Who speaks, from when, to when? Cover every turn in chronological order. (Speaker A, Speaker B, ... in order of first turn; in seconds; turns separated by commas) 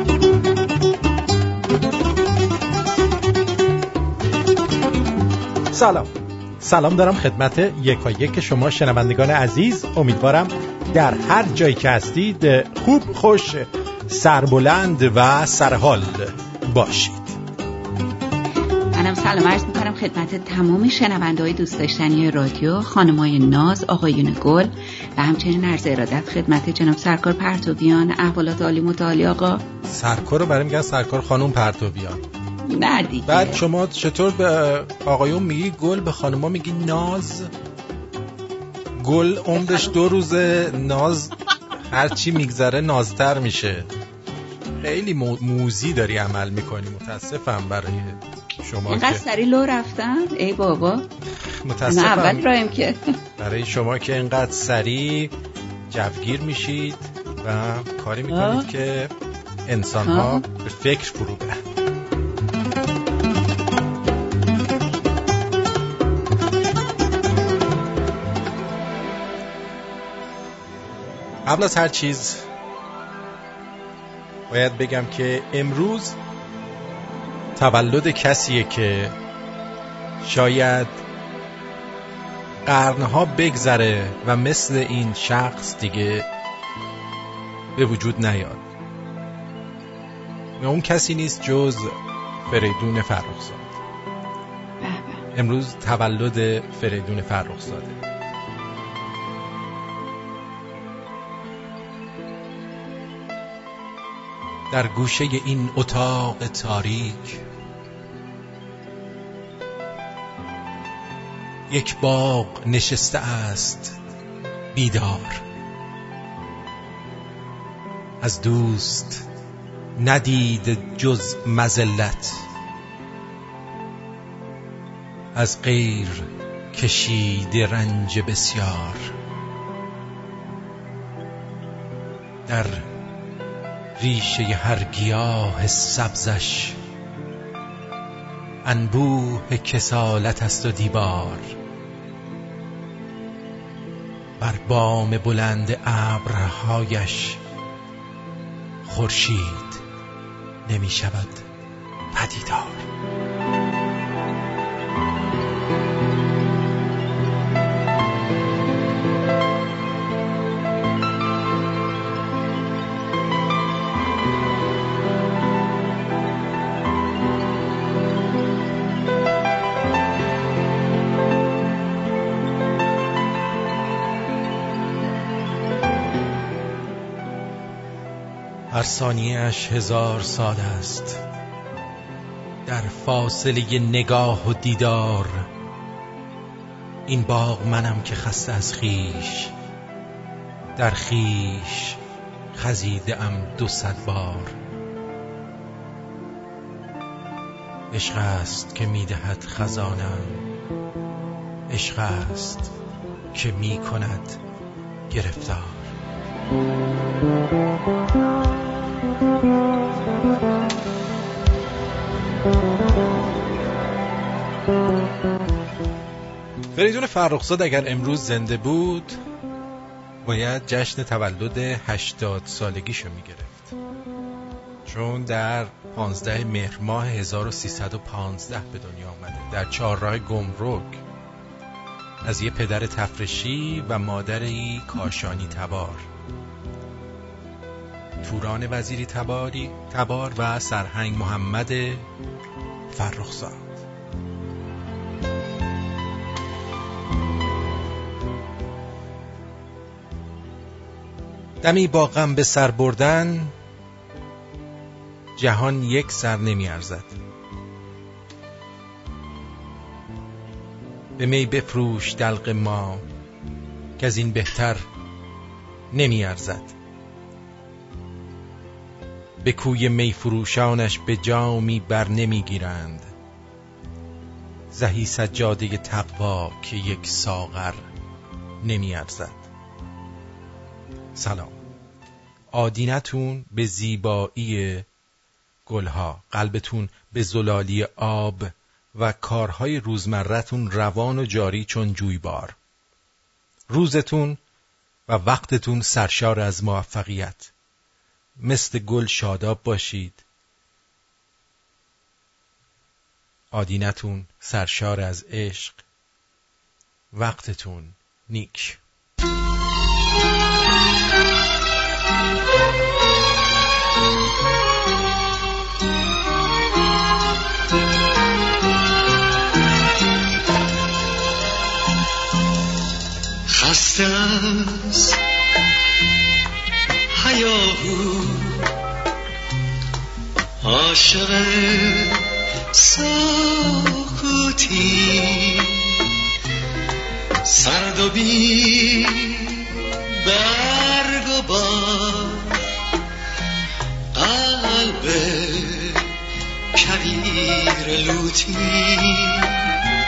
Speaker A: 5.7-17.4, Speaker B: 18.9-29.6, Speaker A: 29.9-32.2, Speaker B: 32.7-33.6, Speaker A: 33.3-37.5, Speaker A: 39.0-41.3, Speaker B: 39.6-39.9, Speaker A: 41.9-43.9, Speaker A: 44.8-49.2, Speaker B: 48.9-51.1, Speaker A: 51.6-52.5, Speaker B: 51.9-53.0, Speaker A: 53.4-55.3, Speaker A: 55.9-59.1, Speaker B: 58.3-58.7, Speaker A: 59.7-61.6, Speaker B: 60.0-60.4, Speaker A: 71.5-72.4, Speaker A: 74.5-76.2, Speaker A: 77.6-79.2, Speaker A: 80.2-81.0, Speaker A: 82.7-86.3, Speaker A: 87.8-88.7, Speaker A: 90.6-93.8, Speaker B: 94.8-95.2, Speaker A: 95.3-98.0, Speaker A: 104.7-107.4, Speaker A: 111.7-114.0, Speaker A: 114.7-115.4, Speaker A: 118.2-119.2, Speaker A: 120.0-122.4, Speaker A: 125.3-129.1, Speaker A: 132.5-132.9, Speaker A: 134.0-136.8, Speaker A: 138.6-141.5, Speaker A: 144.4-147.4, Speaker A: 148.8-149.8, Speaker A: 150.7-151.5, Speaker A: 152.1-152.8, Speaker A: 178.7-181.2, Speaker A: 182.7-185.5, Speaker A: 187.1-189.5, Speaker A: 190.8-192.0, Speaker A: 192.6-194.6, Speaker A: 197.9-200.4, Speaker A: 201.7-202.7, Speaker A: 203.3-204.4, Speaker A: 205.1-205.9, Speaker A: 216.7-219.2, Speaker A: 220.2-223.7, Speaker A: 224.9-231.0, Speaker A: 232.2-236.1, Speaker A: 238.2-242.1, Speaker A: 242.9-243.8, Speaker A: 251.6-253.5, Speaker A: 255.4-257.2, Speaker A: 261.2-263.1, Speaker A: 264.0-264.8, Speaker A: 265.9-266.7, Speaker A: 269.4-273.1, Speaker A: 274.7-277.8, Speaker A: 278.6-279.4, Speaker A: 281.1-281.6, Speaker A: 282.5-284.9, Speaker A: 285.7-292.6, Speaker A: 293.7-294.4, Speaker A: 295.1-297.5, Speaker A: 298.4-300.2, Speaker A: 303.5-305.8, Speaker A: 307.1-308.8, Speaker C: 323.5-325.2, Speaker C: 327.1-328.6, Speaker C: 330.6-336.0, Speaker C: 337.5-342.6, Speaker C: 344.1-346.1, Speaker C: 346.7-349.6